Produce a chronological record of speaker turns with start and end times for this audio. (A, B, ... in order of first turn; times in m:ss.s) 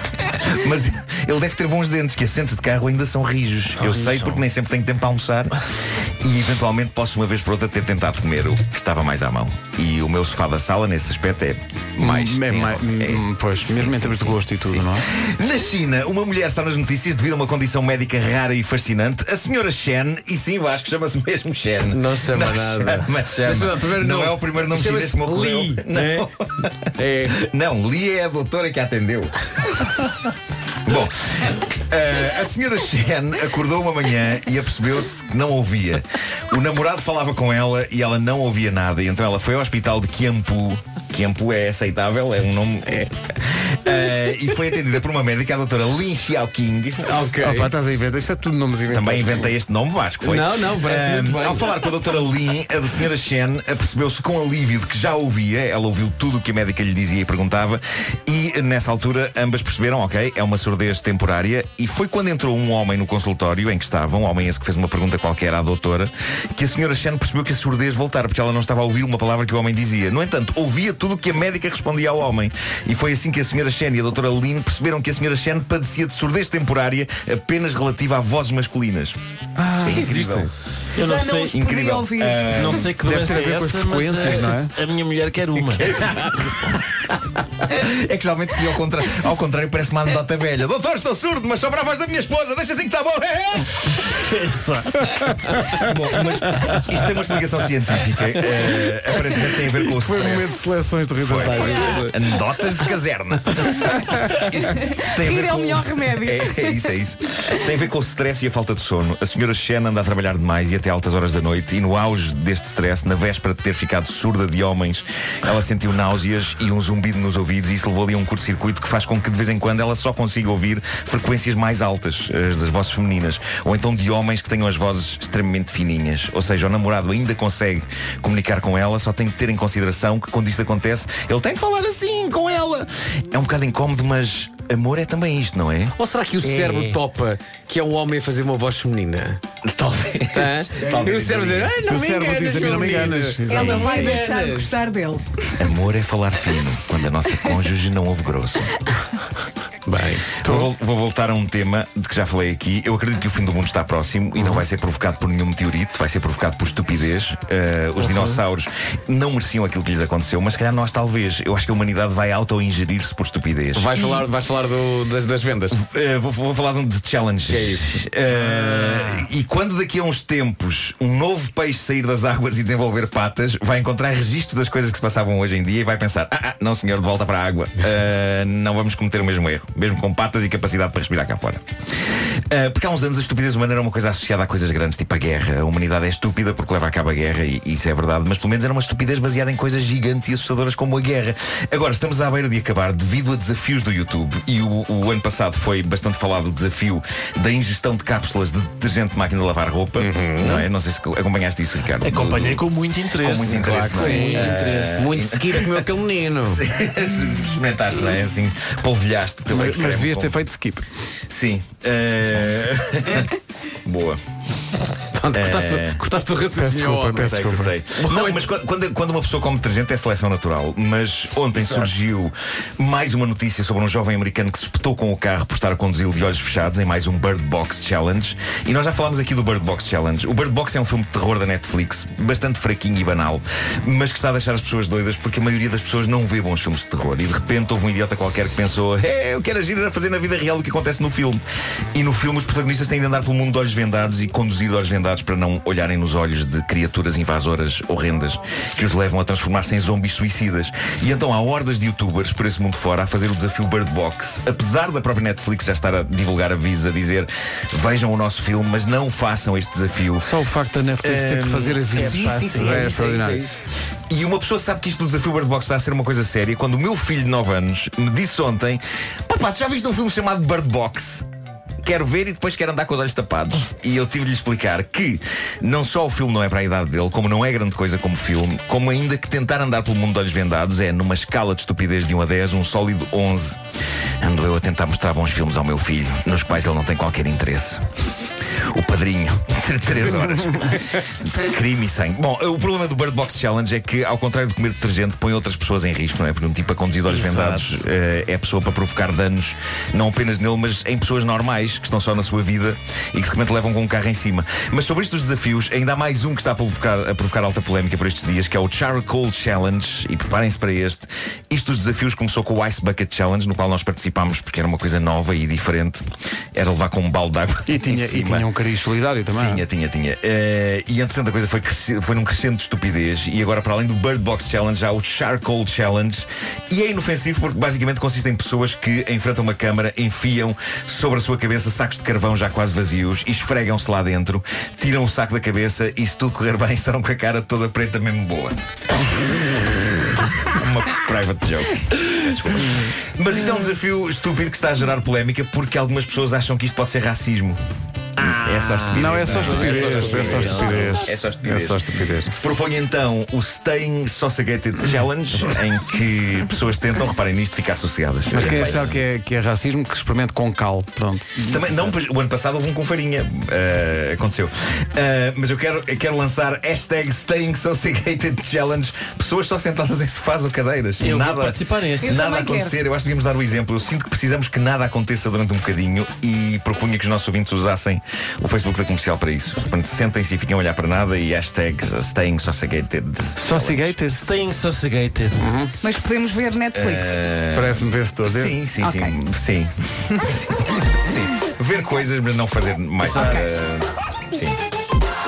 0:00.2-0:05.6 A
0:03.8-0:04.4 B
0:06.2-0:29.5 A
0:12.0-0:15.0 C
0:21.9-0:25.8 D
0:25.9-0:26.2 B
0:27.0-0:27.4 D
0:30.8-0:47.1 A
0:47.1-0:47.7 D
0:47.4-0:49.5 C
0:48.9-1:19.2 A
0:50.2-0:51.8 D
1:19.6-1:20.1 C
1:19.7-1:20.5 A
1:19.8-1:20.5 D
1:20.9-1:21.6 B
1:21.0-1:22.7 E
1:21.5-1:22.9 A
1:22.4-1:26.3 B
1:23.0-1:24.7 C
1:25.8-1:34.0 A
1:34.0-1:35.3 B
1:35.1-1:35.9 C
1:35.7-2:16.0 A
1:39.8-1:42.2 C
1:44.7-1:46.8 E
2:16.0-2:19.4 D
2:16.4-2:17.0 B
2:19.6-2:21.8 A
2:20.3-2:24.9 D
2:21.9-2:23.9 C
2:22.0-2:23.1 B
2:23.5-2:25.6 E
2:23.6-2:24.2 A
2:25.6-2:28.8 A
2:29.9-2:30.4 D
2:30.4-2:44.3 A
2:30.4-2:30.7 C
2:34.4-2:34.6 D
2:38.0-2:38.4 D
2:43.8-2:45.8 D
2:45.7-3:22.6 A
2:47.4-2:48.0 D
3:20.0-3:20.7 D
3:22.0-3:24.9 B
3:23.2-3:25.9 A
3:23.6-3:25.0 C
3:23.6-3:26.6 D
3:26.4-3:30.4 A
3:29.5-3:30.8 C
3:31.3-3:33.3 A
3:33.8-3:34.2 A
3:35.1-3:37.3 D
3:35.3-3:36.0 A
3:36.5-3:37.8 C
3:37.1-4:01.4 A
3:38.0-3:38.5 D
3:41.6-3:42.0 D
4:01.9-4:20.3 A
4:20.2-4:23.4 C
4:21.0-4:23.1 A
4:22.0-4:22.9 B
4:22.8-4:23.6 D
4:24.1-4:31.3 A
4:31.8-4:43.6 A
4:44.2-5:18.5 A
4:57.1-4:57.8 B
5:17.7-5:19.6 C
5:19.4-5:38.6 A
5:40.2-5:47.6 A
5:48.2-5:51.8 A
5:48.2-5:50.8 D
5:48.9-5:52.3 C
5:49.2-5:51.0 B
5:52.4-5:59.0 A
5:58.3-6:02.0 C
6:01.4-6:24.0 A
6:11.0-6:12.2 B
6:12.0-6:12.8 E
6:23.4-6:24.5 C
6:24.2-6:25.5 B
6:25.4-6:25.7 C
6:25.8-6:27.2 E
6:26.7-6:34.6 A
6:27.5-6:29.1 C
6:33.0-6:33.4 E
6:33.1-6:33.4 C